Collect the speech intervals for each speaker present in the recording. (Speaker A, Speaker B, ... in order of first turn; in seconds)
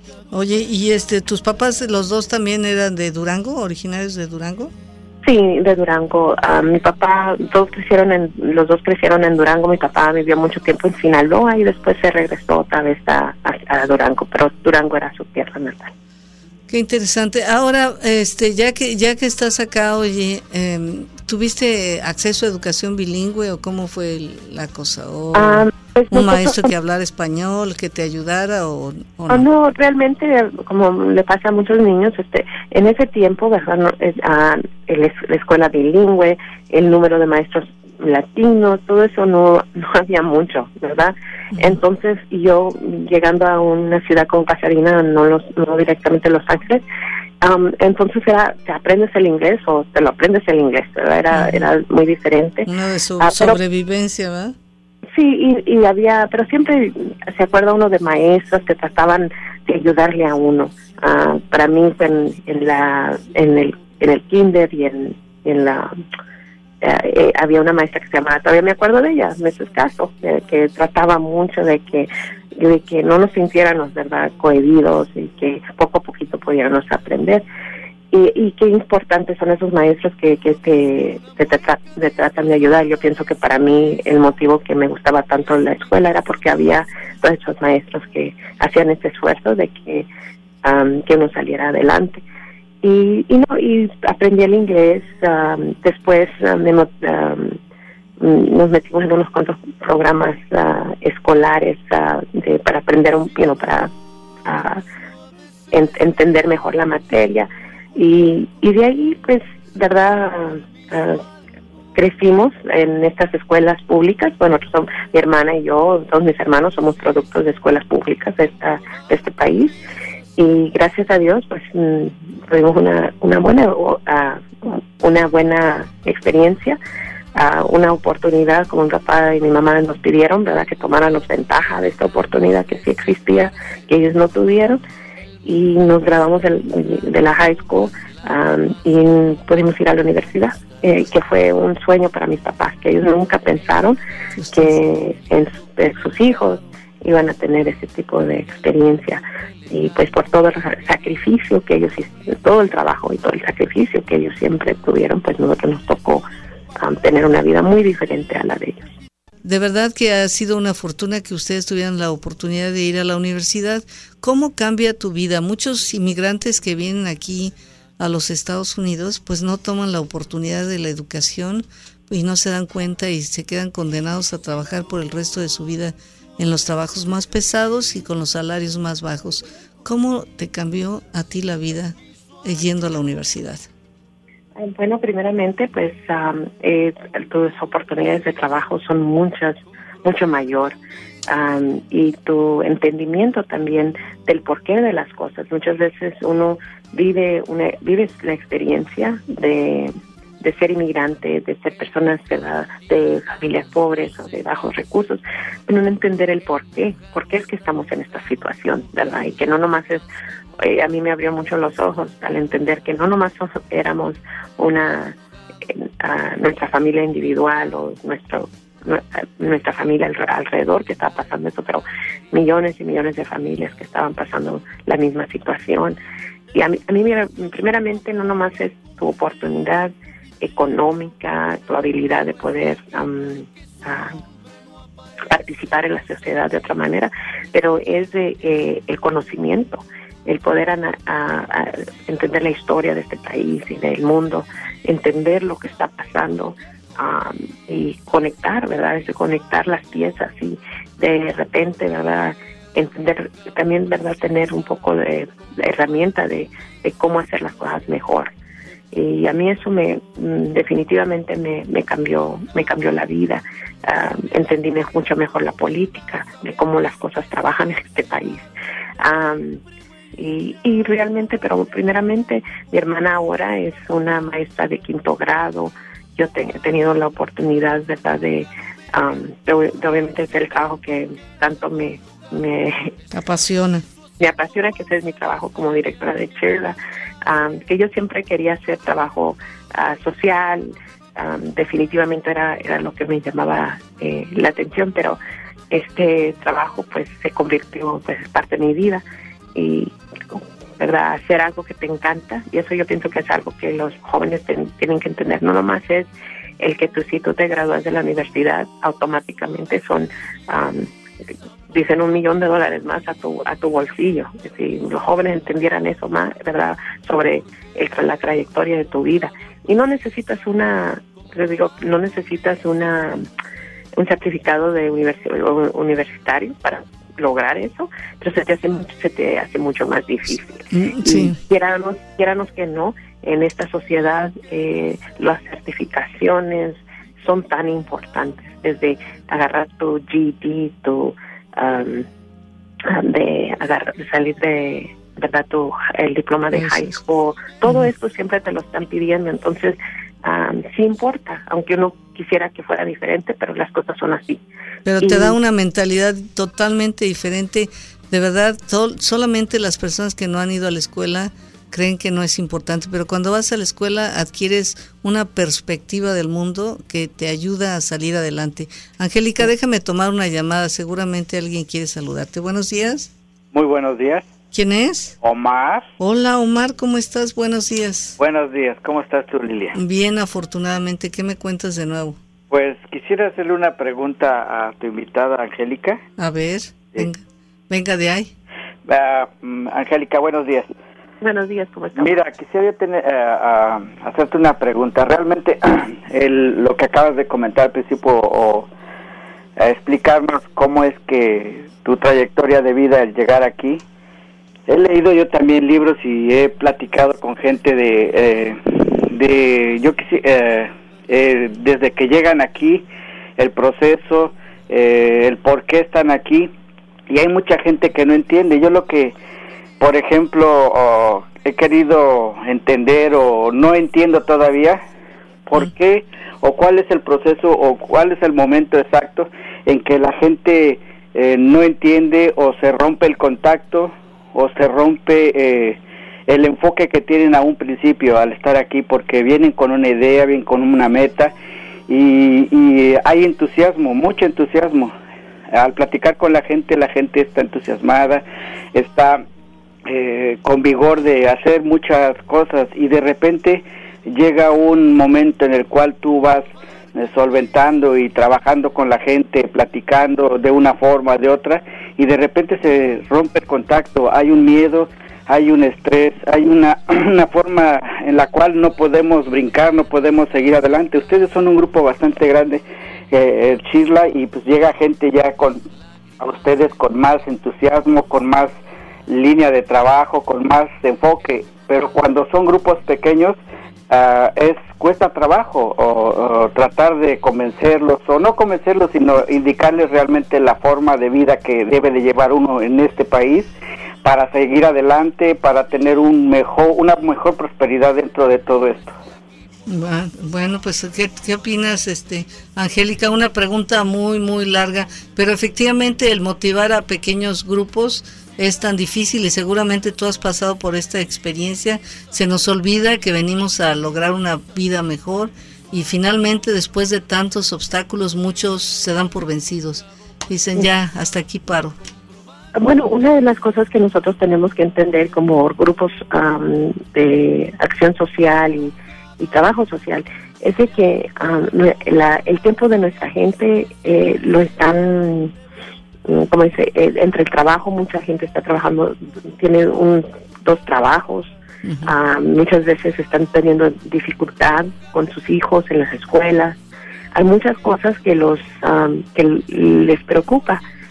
Speaker A: 0.3-4.7, 16.7-29.4, 51.3-51.6, 52.6-54.5, 144.3-144.7, 159.4-183.7, 283.1-283.8, 330.7-331.4, 346.5-347.0, 354.8-373.1, 374.5-375.1, 376.0-378.2, 379.7-382.2, 386.2-388.3, 499.7-521.8, 541.6-541.9
Speaker B: 5.2-15.9, 25.3-26.7, 29.3-46.8, 47.4-52.7, 53.2-53.6, 55.1-65.9, 66.8-77.4, 78.1-90.0, 90.6-92.2, 92.8-97.6, 98.2-103.9, 104.4-104.8, 105.7-111.2, 111.9-119.8, 120.4-126.8, 127.3-134.8, 135.4-144.0, 144.5-156.2, 156.8-158.9, 184.6-190.8, 191.3-210.0, 210.6-215.2, 215.7-226.0, 226.5-234.2, 235.3-258.3, 258.9-268.5, 269.0-269.6, 270.1-282.9, 284.2-295.2, 295.7-299.0, 299.5-310.9, 311.7-323.2, 324.0-342.1, 342.8-354.4, 355.0-355.4, 391.2-392.1, 522.5-535.3, 536.0-546.6, 547.1-550.6
Speaker C: 373.5-374.3, 375.2-375.9, 378.2-379.8, 382.5-386.0, 388.9-390.7, 391.9-398.7, 399.6-403.8, 404.7-412.8, 413.4-416.5, 417.1-419.1, 419.8-424.8, 425.5-441.3, 441.9-444.9, 445.5-448.2, 448.7-449.2, 449.8-475.6, 476.2-478.5, 479.1-483.4, 483.9-493.5, 494.0-499.0